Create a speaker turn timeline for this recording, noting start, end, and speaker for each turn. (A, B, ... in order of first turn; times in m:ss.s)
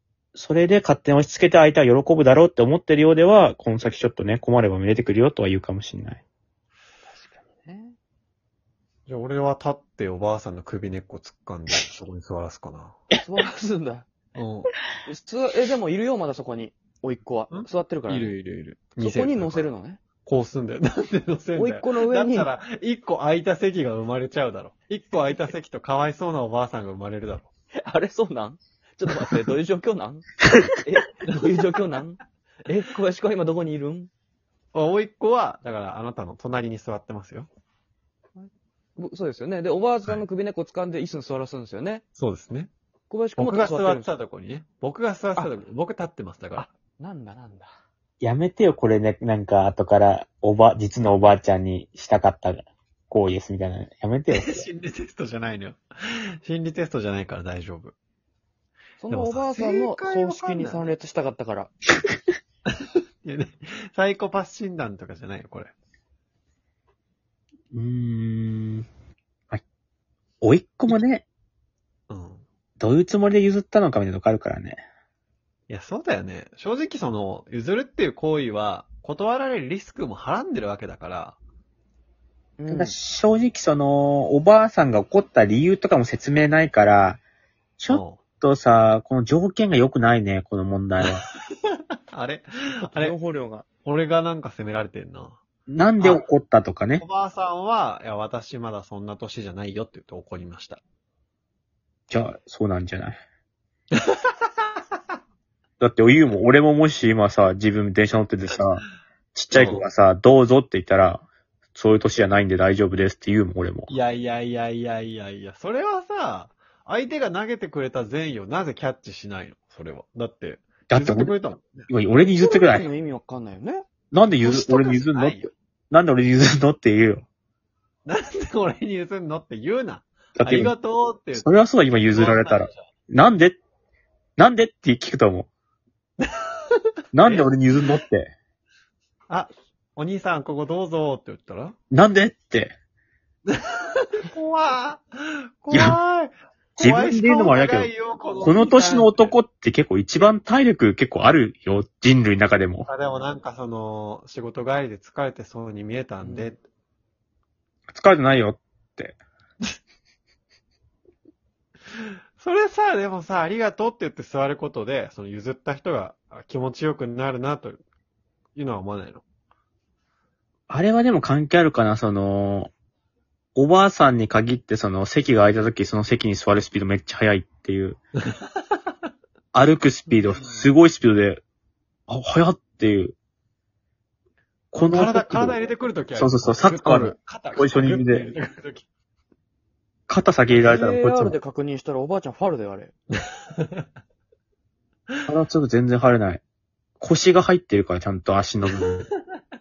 0:00.4-0:06.2 A
0:07.1-0:08.0 B
0:09.1-0:13.0 C
0:13.2-0:14.1 B
0:14.4-0:14.7 C
0:15.0-0:18.3 B
0:17.5-0:19.7 C
0:19.0-0:20.0 B
0:20.3-0:27.5 C
0:21.6-0:22.5 B
0:27.8-0:34.1 B
0:34.7-0:37.5 C
0:38.4-0:42.0 B
0:42.2-0:42.7 C
0:43.1-0:44.1 B
0:43.4-0:46.7 C
0:46.6-0:47.7 B
0:48.2-0:54.6 A
0:54.3-0:58.0 C
0:59.0-1:01.7 B
0:59.1-1:00.9 C
1:03.2-1:05.7 C
1:07.7-1:08.9 A
1:10.4-1:11.2 A
1:12.1-1:12.4 C
1:12.8-1:14.8 A
1:15.7-1:21.4 C
1:22.6-1:23.0 B
1:22.7-1:27.2 A
1:27.8-1:31.3 A
1:27.9-1:28.2 C
1:32.1-1:33.2 C
1:32.9-1:33.7 B
1:33.8-1:35.4 C
1:35.7-1:37.0 A
1:36.0-1:36.3 C
1:37.0-1:40.8 C
1:42.1-1:43.2 A
1:43.9-1:44.2 C
1:45.8-1:53.9 A
1:49.5-1:49.8 C
1:53.9-2:01.9 C
2:00.9-2:01.3 A
2:01.9-2:02.9 A
2:02.4-2:03.8 B
2:04.1-2:07.2 A
2:04.4-2:05.5 C
2:08.1-2:11.5 C
2:10.4-2:10.8 A
2:11.4-2:13.6 A
2:12.1-2:12.8 C
2:14.4-2:15.5 A
2:17.1-2:18.3 A
2:19.3-2:21.8 C
2:21.9-2:22.8 A
2:23.5-2:29.4 C
2:25.7-2:26.0 A
2:26.8-2:27.9 A
2:28.4-2:32.9 A
2:32.9-2:36.6 C
2:36.2-2:36.5 B
2:37.9-2:39.2 A
2:42.0-2:47.8 C
2:48.6-2:49.2 C
2:50.7-2:52.7 A
2:53.6-2:58.0 A
2:59.5-3:01.4 A
3:00.1-3:00.7 B
3:02.1-3:03.2 A
3:04.7-3:05.6 A
3:04.8-3:08.9 C
3:06.2-3:08.3 A
3:10.1-3:11.4 A
3:10.6-3:12.9 B
3:13.1-3:13.9 C
3:15.3-3:16.4 A
3:17.0-3:19.1 A